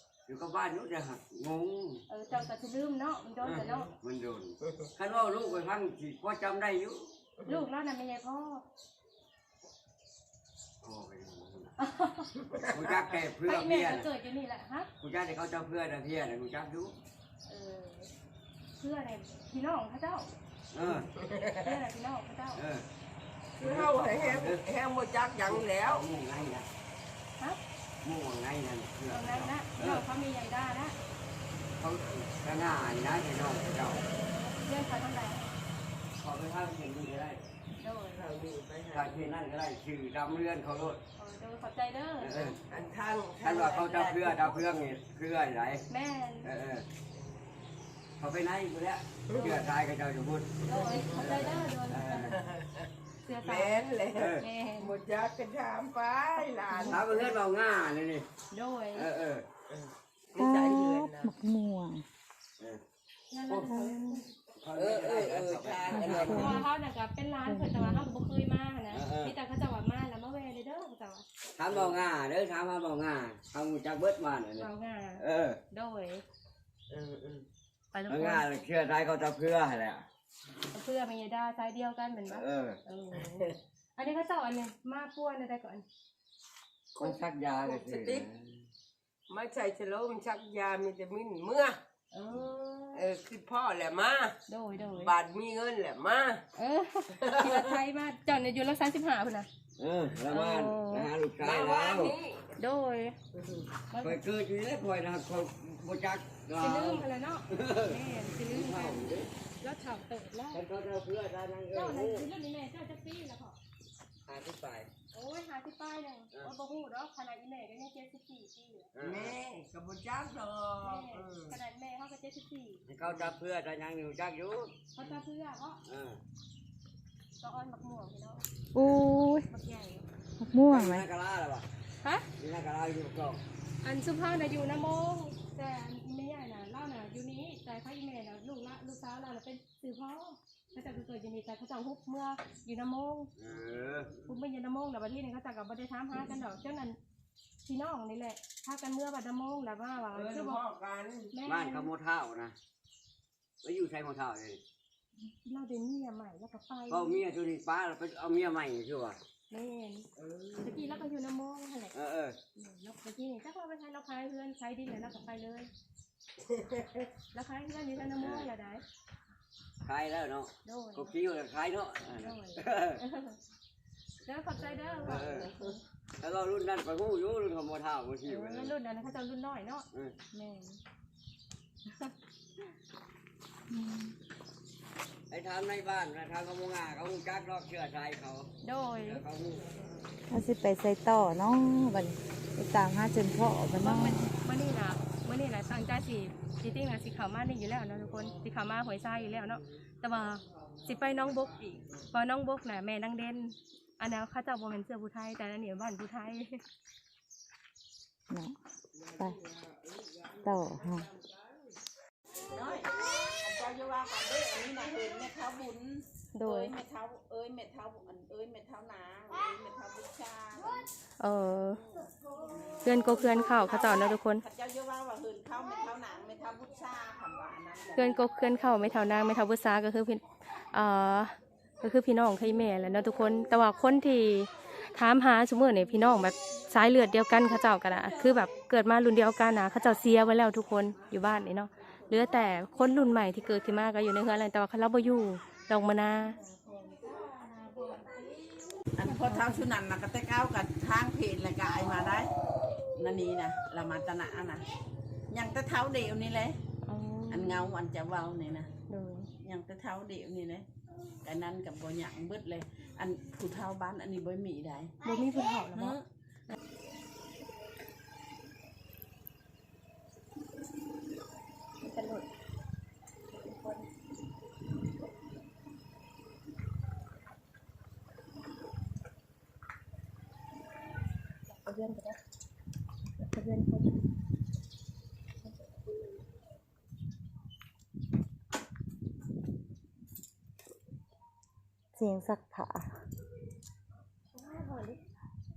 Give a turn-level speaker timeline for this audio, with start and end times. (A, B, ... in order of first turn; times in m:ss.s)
0:00.3-0:02.0 A
0:02.1-0:03.9 B
0:03.4-0:07.1 A
0:07.5-0:08.6 B
0:10.8-0:11.7 A
0:11.8-0:12.3 B
0:12.5-0:12.8 C
0:12.6-0:14.1 A
0:13.4-0:14.9 B
0:15.0-0:17.0 A
0:17.4-0:18.1 B
0:18.8-0:20.3 B
0:20.7-0:21.1 A
0:20.9-0:21.7 C
0:21.5-0:22.6 B
0:22.6-0:22.8 A
0:23.6-0:26.0 C
0:23.6-0:24.6 A
0:25.4-0:26.7 A
0:28.0-0:30.0 A
0:29.1-0:31.0 B
0:31.8-0:34.0 A
0:34.5-0:35.5 B
0:36.2-0:37.4 A
0:37.8-0:38.3 B
0:38.1-0:39.3 C
0:38.9-0:41.0 A
0:41.2-0:42.4 B
0:42.2-0:42.6 A
0:42.4-0:44.8 C
0:43.4-0:45.9 A
0:45.9-0:46.5 B
0:46.4-0:46.9 A
0:48.2-0:52.4 A
0:49.3-0:49.6 C
0:50.7-0:52.4 B
0:50.7-0:51.4 C
0:52.2-0:52.9 C
0:53.2-0:53.8 B
0:53.4-0:57.4 C
0:54.1-0:54.4 A
0:54.4-0:55.0 B
0:56.4-0:57.0 B
0:56.9-0:58.3 A
0:58.5-0:59.1 B
0:59.0-0:59.4 A
0:59.7-1:01.3 C
1:00.4-1:02.0 D
1:03.3-1:04.2 B
1:03.5-1:03.8 A
1:03.7-1:04.2 D
1:04.6-1:06.6 A
1:04.7-1:06.6 C
1:05.9-1:06.6 D
1:06.3-1:11.3 B
1:07.4-1:08.1 D
1:08.9-1:09.4 A
1:11.6-1:14.7 A
1:11.7-1:12.0 C
1:14.6-1:16.2 B
1:15.2-1:15.6 A
1:16.9-1:17.5 C
1:17.9-1:18.4 B
1:18.1-1:20.1 A
1:20.7-1:25.8 B
1:22.3-1:22.8 A
1:27.0-1:28.6 A
1:27.0-1:28.2 C
1:29.3-1:31.8 C
1:32.4-1:32.9 E
1:32.6-1:32.9 B
1:32.9-1:34.4 C
1:34.5-1:35.2 B
1:34.9-1:36.4 C
1:36.6-1:39.5 B
1:37.2-1:37.7 C
1:39.8-1:42.2 A
1:40.3-1:41.1 B
1:41.4-1:42.5 C
1:42.6-1:43.2 B
1:43.4-1:43.7 C
1:43.9-1:44.2 B
1:44.0-1:49.3 A
1:46.6-1:49.0 B
1:49.6-1:50.6 B
1:50.5-1:52.3 A
1:51.7-1:53.6 B
1:54.3-1:54.9 A
1:55.1-1:58.9 B
1:58.9-1:59.4 A
1:59.0-2:01.6 C
2:00.8-2:02.8 B
2:02.9-2:04.7 A
2:03.0-2:03.4 C
2:04.9-2:05.8 B
2:05.8-2:06.2 A
2:07.4-2:08.5 B
2:08.7-2:09.5 D
2:08.8-2:09.1 A
2:09.5-2:10.1 B
2:10.4-2:11.1 D
2:10.7-2:11.7 A
2:12.0-2:12.3 B
2:12.4-2:13.4 A
2:13.8-2:23.3 B
2:23.4-2:24.1 A
2:24.2-2:27.0 B
2:27.6-2:30.6 B
2:30.1-2:31.3 C
2:31.3-2:31.9 B
2:31.4-2:32.6 A
2:33.6-2:34.6 A
2:35.4-2:37.2 B
2:36.9-2:39.2 A
2:39.5-2:40.1 B
2:40.2-2:40.8 C
2:40.6-2:41.9 B
2:41.9-2:42.4 A
2:42.6-2:45.7 B
2:46.5-2:47.1 C
2:47.3-2:48.8 B
2:48.2-2:48.5 A
2:49.8-2:53.0 A
2:50.6-2:51.1 B
2:52.2-2:53.4 B
2:54.2-2:55.8 B
2:55.0-2:55.5 A
2:56.2-2:58.7 A
2:58.2-3:00.8 B
3:03.7-3:04.2 D
3:05.3-3:08.5 A
3:08.6-3:09.2 B
3:09.0-3:09.8 A
3:10.3-3:14.3 D
3:13.8-3:26.6 B
3:28.3-3:28.6 D
3:30.4-3:31.1 D
3:32.5-3:40.8 E
3:36.3-3:36.7 B
3:41.2-3:41.8 B
3:42.0-3:48.2 E
3:42.8-3:44.4 B
3:48.0-4:06.4 B
3:58.0-3:58.5 E
4:06.4-4:08.3 E
4:08.9-4:12.3 E
4:09.0-4:09.6 B
4:13.0-4:14.7 E
4:15.3-4:16.6 E
4:16.8-4:17.7 B
4:17.3-4:18.7 E
4:18.9-4:19.3 B
4:19.4-4:20.7 E
4:21.2-4:24.9 E
4:25.0-4:26.0 B
4:25.7-4:26.0 E
4:31.8-4:32.2 B
4:33.4-4:33.8 B
4:41.5-4:42.2 B
4:43.3-4:43.8 B
4:51.9-4:52.9 D
4:54.3-4:55.0 B